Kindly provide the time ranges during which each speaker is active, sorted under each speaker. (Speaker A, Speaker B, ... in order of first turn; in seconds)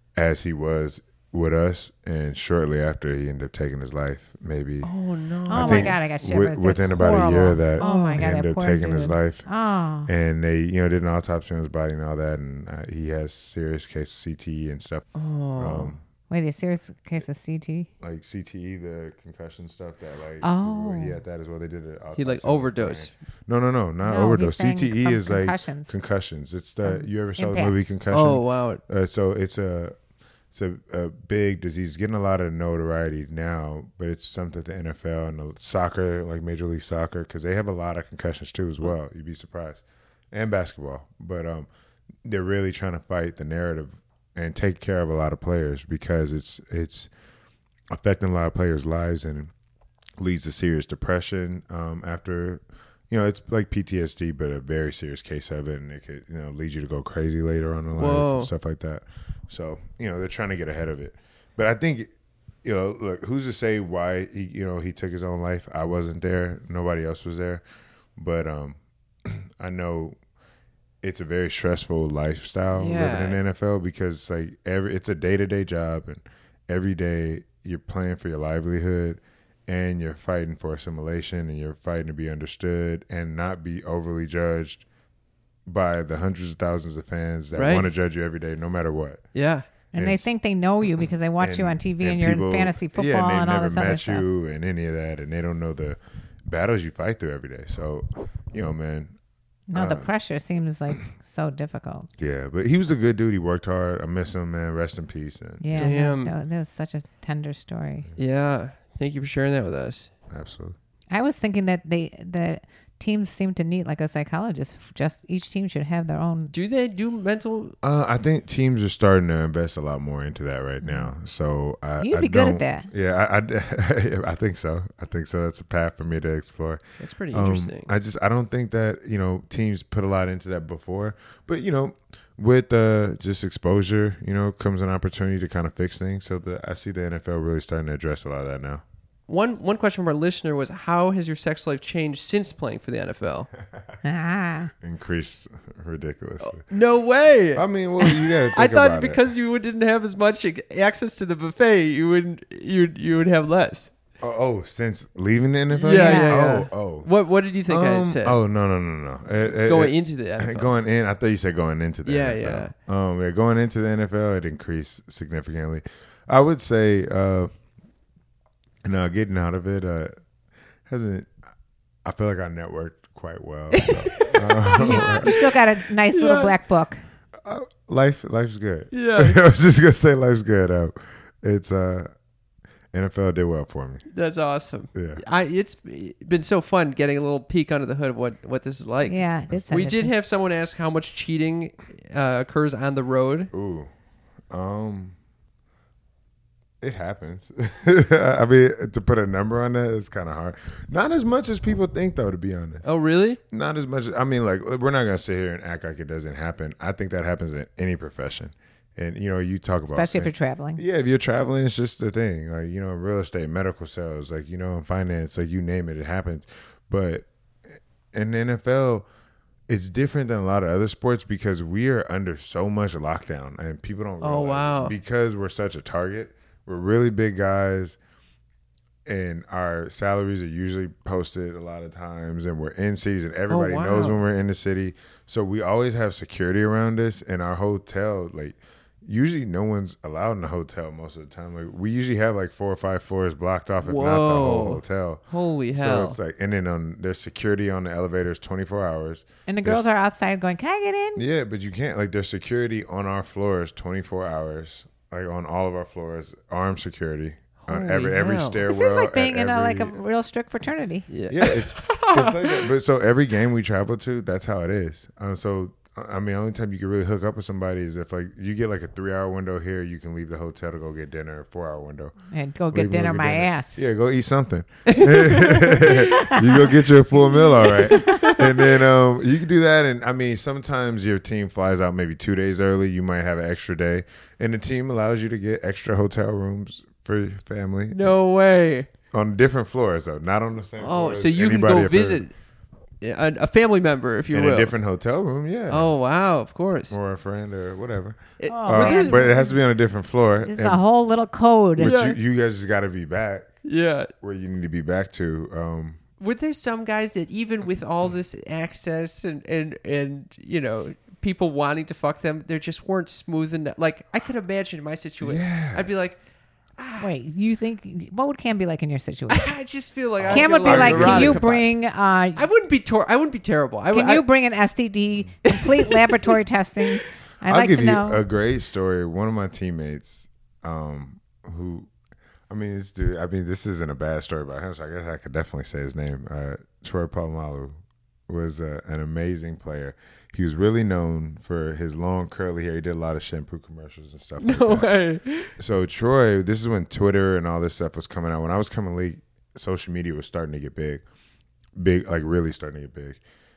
Speaker A: 0.2-4.9, 5.5-9.5, 10.1-15.1, 15.6-16.0, 18.0-29.9, 30.5-41.7, 42.2-47.1, 47.9-49.5, 50.2-62.1, 62.6-67.6, 68.2-70.2, 71.0-84.8, 85.7-89.2, 90.0-90.3, 91.4-99.1, 99.7-100.1, 102.2-105.9, 110.3-110.8, 117.8-138.8, 144.8-146.6, 147.6-149.2, 154.2-157.1, 157.7-167.5, 168.8-170.1, 170.9-171.3, 172.1-175.3, 177.4-182.1, 182.9-184.0, 184.9-185.2, 193.5-193.9, 194.5-195.2, 196.8-202.9, 203.5-217.3, 218.1-219.1, 219.7-228.0, 229.1-245.2, 245.8-249.9, 251.2-260.0, 261.3-272.1, 272.7-288.1, 289.1-292.2, 294.3-295.9, 296.9-300.8, 301.8-303.5, 304.2-306.0, 315.2-315.9, 320.2-321.5, 327.4-331.9, 332.5-337.8, 338.3-344.9, 345.6-351.0, 351.8-353.2
Speaker B: 4.8-6.0, 7.8-8.3, 15.2-15.9, 22.1-23.1, 28.1-28.8, 58.0-58.5, 72.7-73.4, 87.6-87.9, 89.3-89.7, 105.8-106.3, 108.2-110.1, 116.5-117.8, 127.0-127.9, 139.3-143.5, 146.4-153.9, 155.7-158.4, 159.7-160.7, 162.1-162.7, 173.7-175.6, 176.1-176.6, 178.9-179.4, 184.1-193.5, 202.8-203.4, 224.2-225.0, 233.5-234.2, 243.8-246.2, 257.6-258.7, 261.1-262.7, 274.9-278.8, 287.9-288.9, 290.8-292.3, 293.0-294.7, 295.7-296.9, 298.4-299.5, 301.8-302.2, 303.6-304.1, 306.2-316.2, 316.8-317.1, 319.3-321.7, 322.4-324.3, 325.5-326.3, 344.4-345.5
Speaker C: 5.5-10.1, 16.3-17.9, 20.4-21.2, 24.0-26.0, 26.8-27.8, 89.9-94.2, 99.7-102.1, 105.6-108.1, 111.1-116.5, 120.8-121.1, 122.0-122.9, 144.0-144.7, 155.9-156.4, 174.8-177.0, 189.1-190.1, 209.9-210.8, 249.5-251.2, 258.7-261.1, 272.3-273.8, 277.9-278.3, 298.5-299.6, 300.4-301.9, 317.0-319.5, 320.3-322.4, 323.9-328.2